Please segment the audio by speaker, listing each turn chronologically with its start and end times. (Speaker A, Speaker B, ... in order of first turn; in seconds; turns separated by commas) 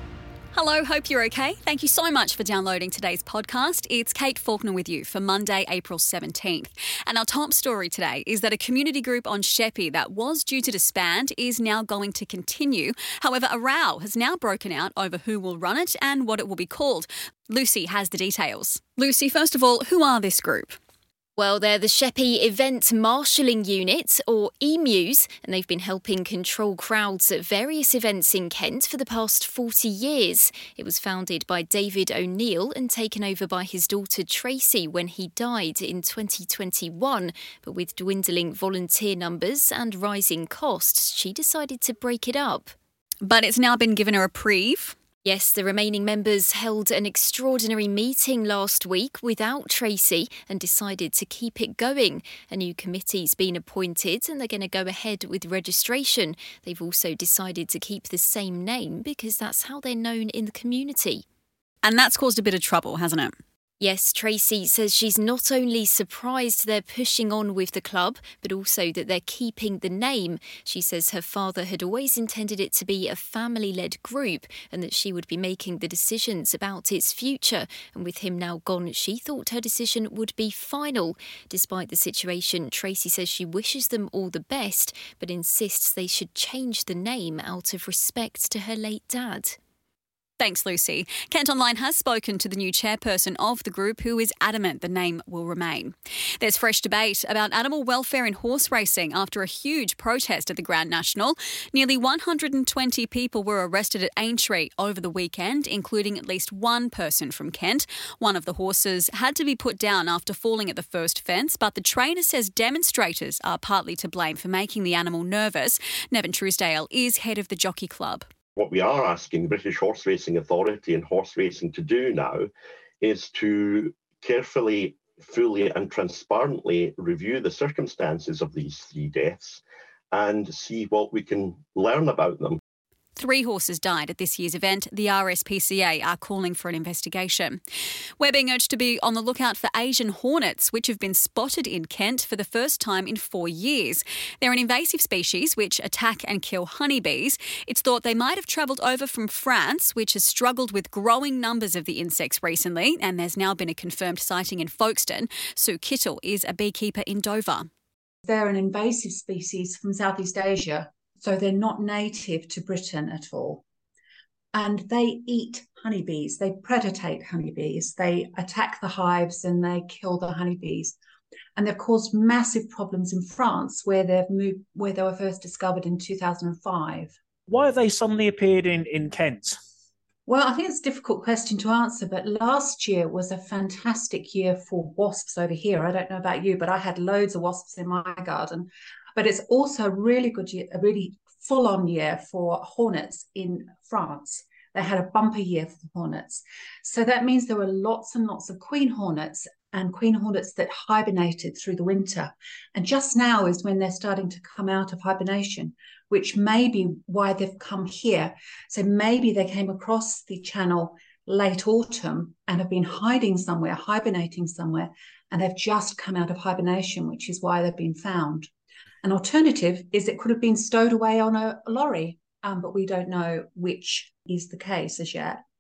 Speaker A: 0.5-20.8, Speaker B: 21.4-42.7, Speaker A: 43.2-45.0, Speaker B: 45.2-61.2, Speaker A: 61.8-63.4, Speaker B: 63.8-89.6, Speaker A: 90.4-118.3, Speaker C: 118.6-122.5, Speaker C: 123.0-132.6, Speaker A: 133.2-137.6, Speaker A: 138.2-157.7, Speaker D: 158.3-163.6, Speaker D: 164.5-171.0, Speaker D: 171.6-177.2, Speaker E: 177.5-179.6, Speaker D: 180.3-218.5, Speaker D: 219.0-225.4